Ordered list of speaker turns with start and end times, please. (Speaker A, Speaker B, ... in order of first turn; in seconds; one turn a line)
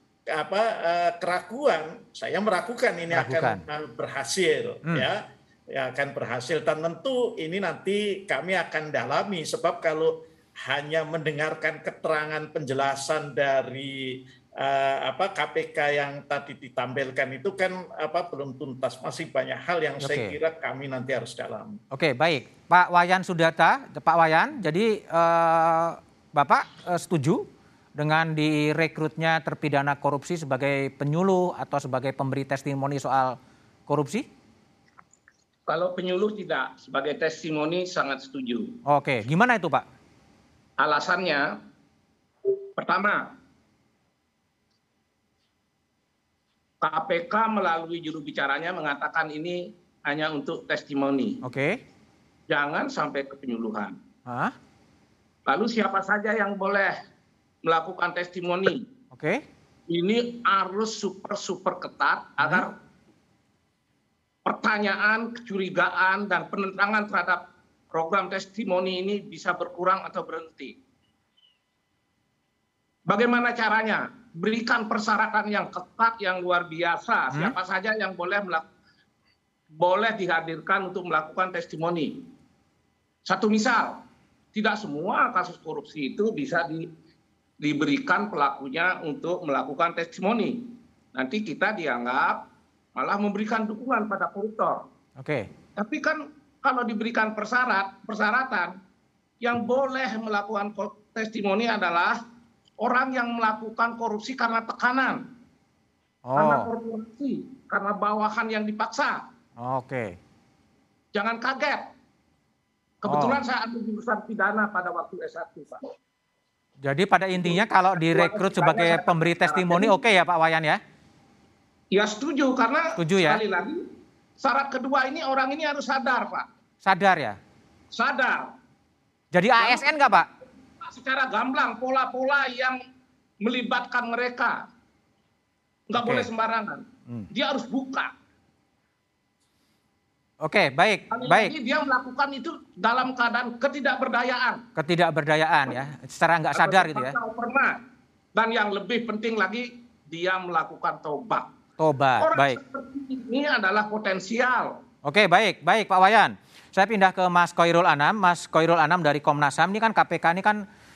Speaker A: 0.3-10.1
Speaker B: 3.1-3.6
Speaker A: 10.6-21.8
Speaker B: 20.0-20.4
Speaker B: 21.9-27.5
Speaker B: 28.0-33.4
Speaker B: 33.9-34.3
Speaker C: 35.7-38.7
Speaker B: 38.9-39.9
Speaker C: 40.8-41.5
Speaker C: 42.8-43.3
Speaker C: 46.8-51.4
Speaker B: 51.4-51.8
Speaker C: 52.5-54.0
Speaker B: 54.3-54.5
Speaker C: 55.5-57.0
Speaker C: 57.6-58.9
Speaker B: 59.1-59.4
Speaker C: 59.9-62.7
Speaker B: 62.4-62.6
Speaker C: 64.5-70.8
Speaker C: 73.1-78.7
Speaker C: 79.8-82.2
Speaker C: 83.2-84.0
Speaker C: 84.5-86.9
Speaker C: 87.6-90.6
Speaker C: 91.1-92.4
Speaker C: 93.0-94.8
Speaker B: 95.2-95.5
Speaker C: 95.8-98.8
Speaker C: 99.4-102.2
Speaker C: 102.8-105.2
Speaker B: 106.3-106.7
Speaker C: 106.4-109.2
Speaker B: 109.6-110.2
Speaker C: 111.1-111.9
Speaker C: 113.0-115.9
Speaker B: 113.1-113.4
Speaker B: 116.8-120.8
Speaker C: 117.4-119.9
Speaker C: 121.9-123.8
Speaker B: 123.0-123.4
Speaker C: 124.4-126.5
Speaker B: 126.8-127.4
Speaker C: 127.9-128.5
Speaker B: 129.3-130.3
Speaker C: 129.6-129.9
Speaker C: 130.8-132.8
Speaker C: 133.4-134.7
Speaker C: 135.9-138.1
Speaker B: 135.9-136.3
Speaker B: 140.4-141.5
Speaker C: 141.1-144.6
Speaker B: 144.8-147.2
Speaker C: 146.6-147.8
Speaker C: 148.3-151.5
Speaker B: 151.8-152.6
Speaker C: 152.2-154.8
Speaker B: 155.1-160.7